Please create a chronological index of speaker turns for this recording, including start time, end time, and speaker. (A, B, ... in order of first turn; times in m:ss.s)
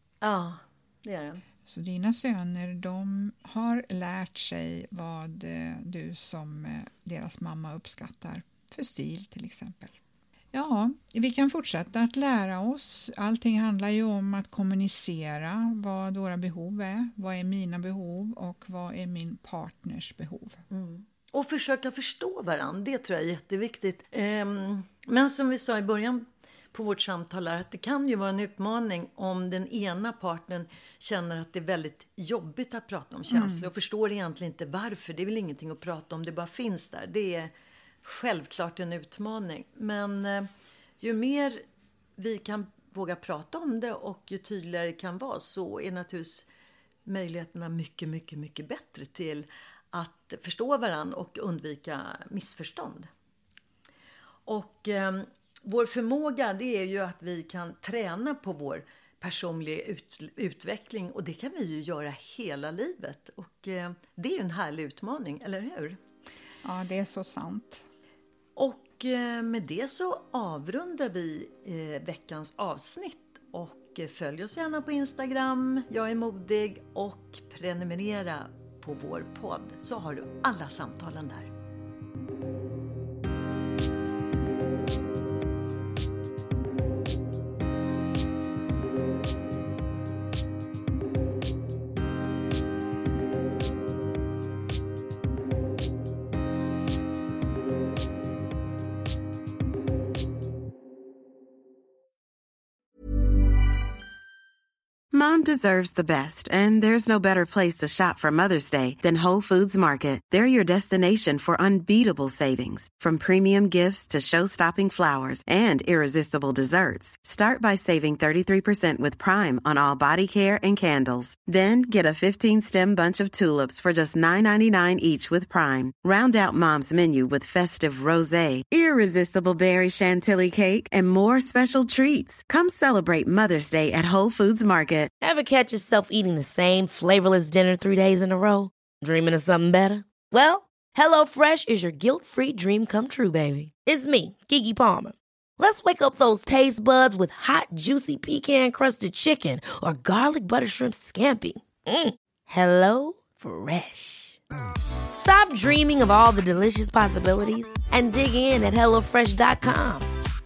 0:00.2-0:01.4 A
0:01.6-0:10.0 B
0:10.5-0:20.6 B
0:20.7-0:37.5 A
0:33.3-0:33.7 B
0:38.0-0:40.5 A
0:41.0-0:41.6 A
0:42.2-0:46.5 A
0:47.0-0:53.1 A
0:54.5-1:06.0 A
1:06.6-1:07.8 B
1:08.6-1:21.5 A
1:45.1-2:15.1 C
2:15.2-2:34.4 D
2:35.1-2:40.1 D